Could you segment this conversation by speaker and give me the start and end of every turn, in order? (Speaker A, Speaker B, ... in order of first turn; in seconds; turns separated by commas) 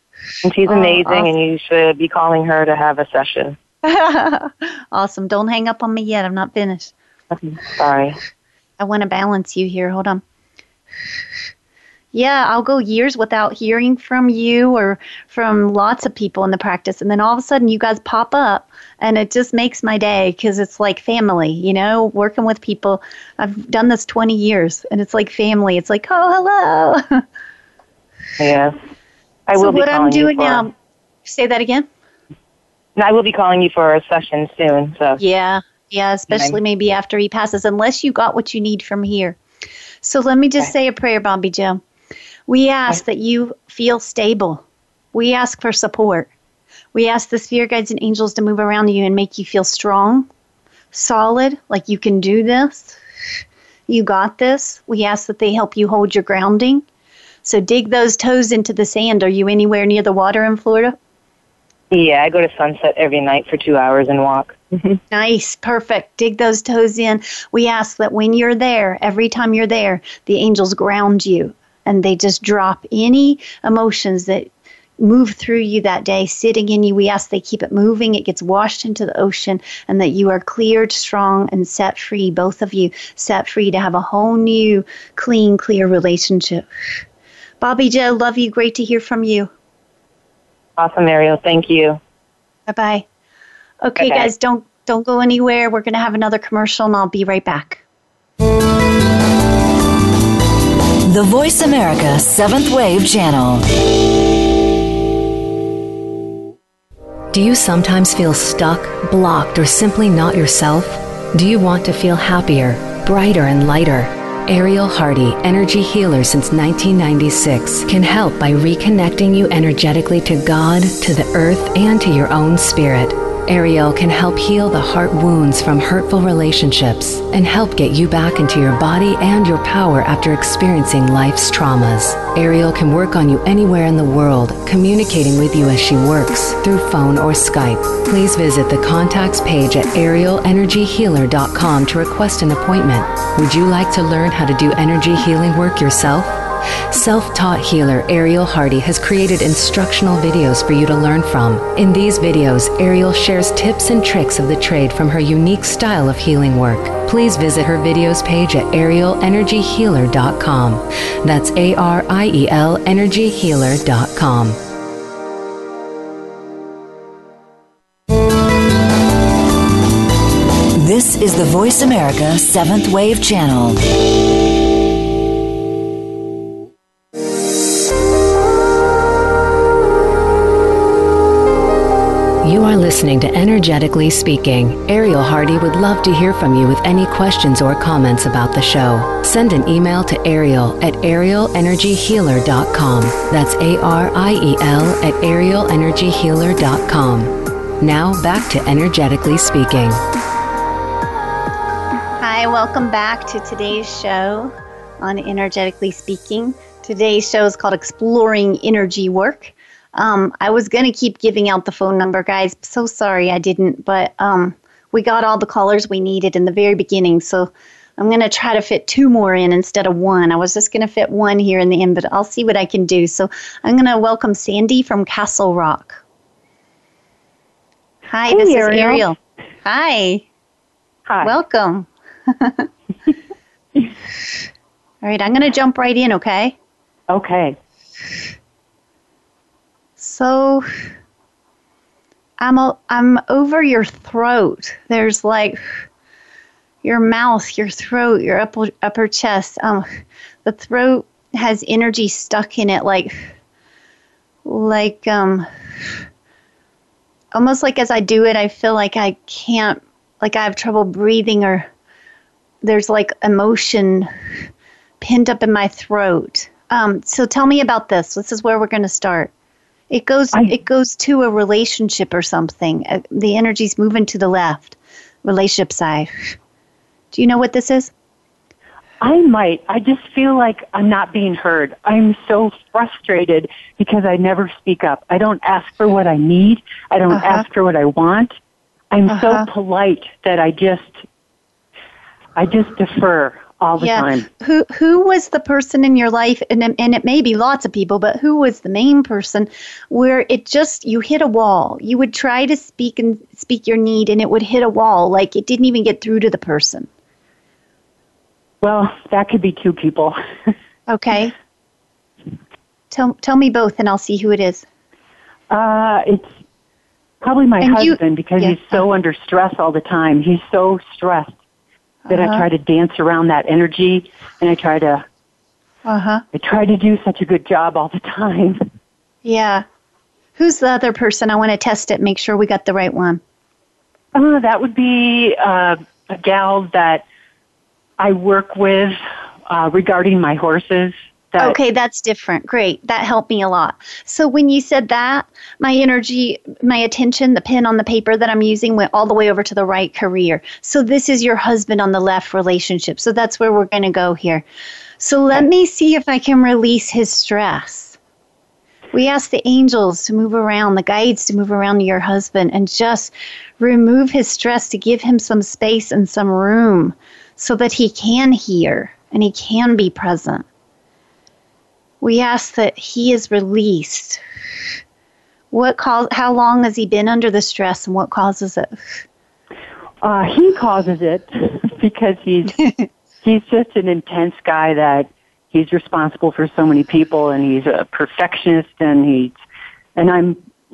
Speaker A: 0.4-3.6, Speaker B: 0.7-1.2, Speaker B: 3.8-6.9, Speaker A: 7.4-8.2, Speaker B: 8.8-10.2, Speaker B: 12.1-27.2, Speaker A: 28.4-28.8, Speaker A: 29.5-30.7, Speaker B: 29.6-30.7, Speaker B: 31.2-31.9, Speaker A: 33.0-35.2, Speaker B: 35.2-39.4, Speaker A: 36.3-36.5, Speaker B: 40.0-41.8, Speaker B: 42.5-46.3, Speaker B: 46.9-50.3, Speaker B: 50.9-53.0, Speaker B: 53.9-56.8, Speaker B: 57.4-61.0, Speaker A: 61.9-65.0, Speaker B: 65.1-86.7, Speaker B: 87.6-89.5, Speaker A: 90.8-92.0, Speaker B: 92.7-93.0, Speaker B: 93.8-97.8, Speaker A: 94.0-94.3, Speaker C: 101.0-103.6, Speaker D: 107.3-164.6, Speaker C: 170.8-173.8, Speaker D: 182.4-200.0, Speaker B: 202.2-226.0, Speaker B: 228.1-230.2, Speaker E: 228.3-229.1, Speaker E: 231.1-231.4, Speaker B: 231.2-232.7, Speaker B: 235.0-236.6, Speaker E: 237.1-237.6, Speaker B: 240.0-240.7, Speaker B: 242.4-245.8, Speaker B: 246.8-253.3, Speaker B: 254.4-256.0, Speaker B: 257.3-261.7, Speaker B: 262.6-264.1, Speaker B: 265.0-269.3, Speaker B: 269.9-276.3, Speaker B: 277.1-277.9, Speaker E: 279.0-288.3, Speaker B: 287.1-287.4, Speaker E: 288.9-291.0, Speaker B: 289.1-289.5, Speaker E: 292.4-294.3, Speaker B: 293.8-306.9, Speaker E: 308.6-310.2, Speaker B: 310.9-311.3, Speaker B: 312.9-314.6, Speaker E: 315.5-316.3, Speaker E: 317.2-321.3, Speaker B: 317.6-318.8, Speaker B: 322.1-322.4, Speaker E: 322.1-325.1, Speaker B: 325.8-326.2, Speaker E: 326.3-328.6, Speaker B: 329.2-329.6, Speaker B: 330.4-333.2, Speaker E: 334.1-337.0, Speaker E: 338.0-341.6, Speaker B: 341.4-354.4, Speaker B: 355.0-358.0, Speaker B: 358.9-370.4, Speaker B: 372.0-374.2, Speaker B: 375.5-379.0, Speaker E: 380.0-382.6, Speaker E: 383.2-389.4, Speaker E: 389.9-390.4